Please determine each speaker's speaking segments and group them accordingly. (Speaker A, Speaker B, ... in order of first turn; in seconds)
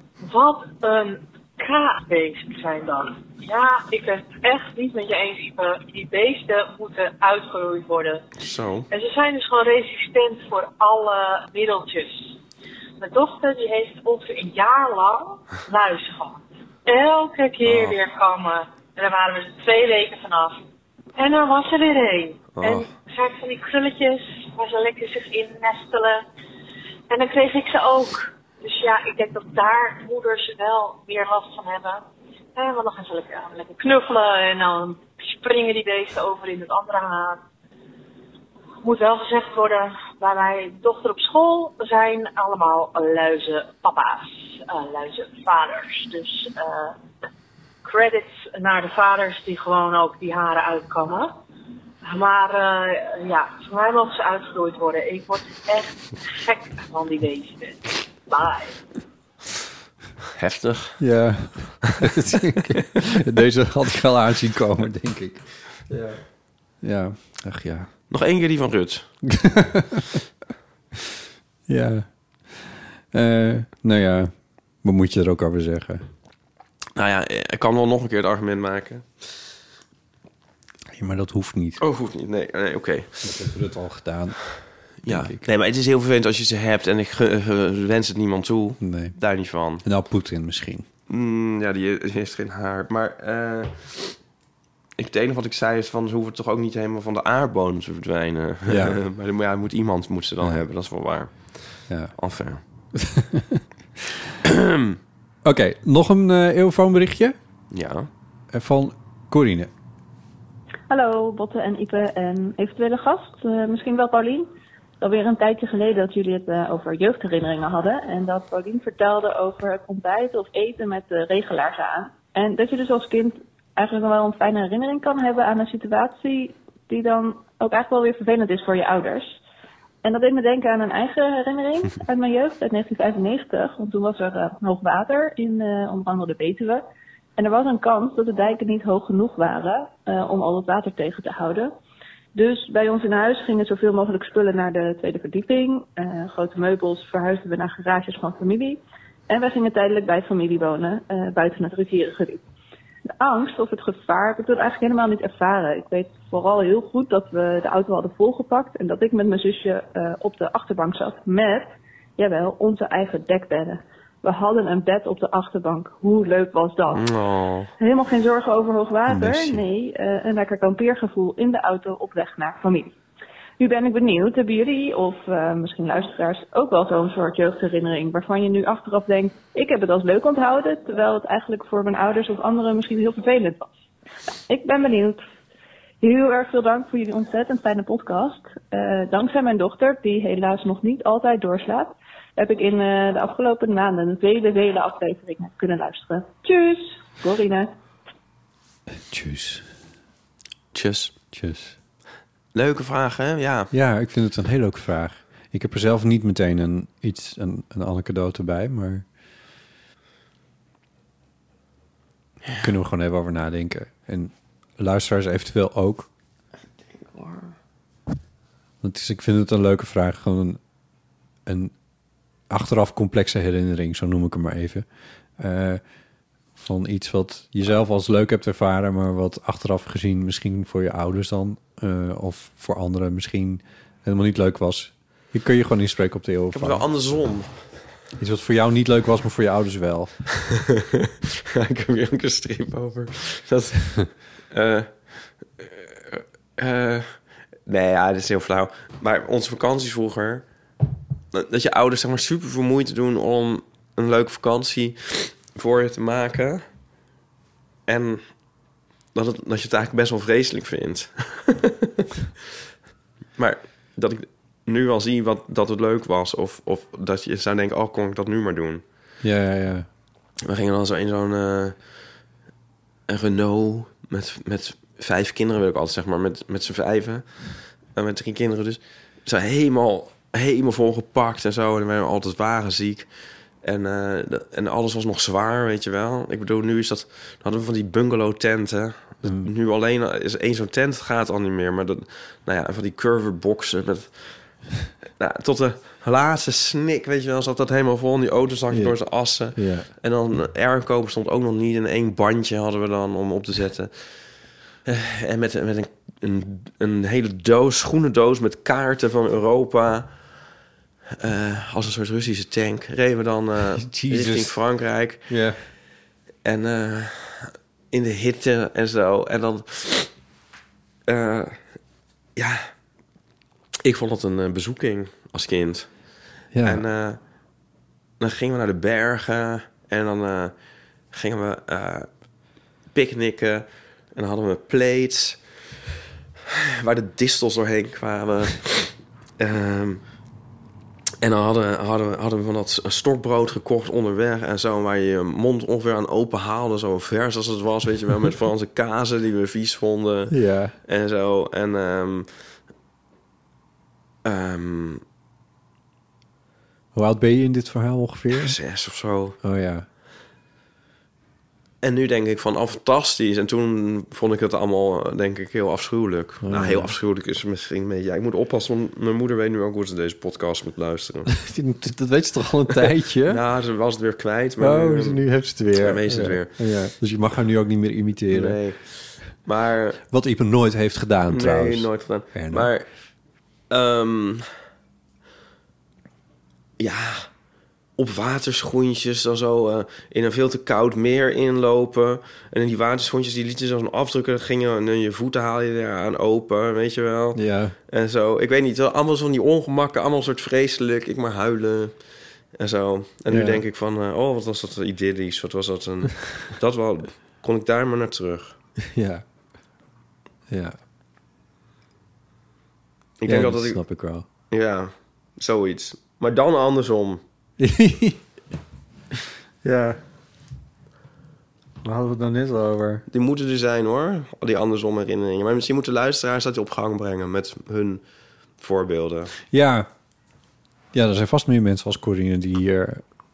Speaker A: 0.2-8.3, 8.9-12.4, 13.0-20.6, 21.1-26.2, 27.1-32.0, 32.5-37.4, 38.8-47.0, 47.8-51.3, 52.0-58.8
Speaker B: 8.4-8.9, 17.6-18.0, 22.5-22.9, 60.3-61.0, 68.1-69.1, 77.0-79.1, 81.8-83.2, 85.0-89.8, 91.1-94.2, 95.0-102.6, 104.5-104.9, 107.7-108.1, 166.9-167.7, 200.7-201.1, 202.5-203.7, 216.9-217.5, 236.5-237.5, 240.6-250.4, 251.3-256.6, 257.9-258.2, 259.1-261.9, 263.4-268.8, 270.4-271.8, 273.1-283.1, 283.6-294.5, 295.2-310.1, 311.2-315.3, 316.4-320.1, 321.1-321.6, 322.4-322.7, 323.8-325.9, 326.6-327.2, 328.2-330.5, 331.1-332.1, 332.9-335.4, 336.5-340.0, 341.2-352.3, 354.2-355.0, 358.3-359.4, 361.8-371.3, 373.3-375.2, 375.8-376.6, 378.3-380.0, 381.3-382.9, 383.7-384.4, 386.8-387.3, 388.0-401.9, 402.5-408.5, 413.2-413.8, 414.5-417.2, 423.1-428.0, 428.6-429.3
Speaker C: 61.0-66.2, 66.8-67.9, 69.3-70.2, 71.7-74.3, 74.8-76.0, 80.9-81.8, 83.2-84.5, 85.0-85.4, 88.8-89.2, 89.8-90.8, 98.7-99.0, 101.9-102.1, 102.9-104.1, 105.4-107.3, 108.5-109.7, 169.1-169.6, 199.1-199.7, 201.3-201.8, 203.7-209.0, 212.6-216.1, 218.8-220.6, 221.4-221.7, 222.5-224.8, 225.4-225.8, 226.6-236.8, 238.2-240.1, 269.2-269.9, 289.2-289.5, 298.7-299.9, 313.8-314.6, 315.3-315.6, 326.5-326.8, 350.3-350.7, 356.9-358.6, 359.4-359.9, 366.4-366.9, 371.3-373.4, 374.6-378.6, 380.1-382.7, 397.3-397.8, 403.3-403.6, 408.8-409.2, 410.5-410.8, 413.2-414.2, 417.6-418.2, 419.6-420.0, 421.8-423.0, 429.5-429.9, 430.9-433.0
Speaker D: 110.9-114.5, 115.0-129.3, 130.0-136.8, 137.4-141.7, 142.3-152.4, 153.2-167.1, 167.8-172.9, 173.6-183.7, 184.5-185.2, 186.0-197.7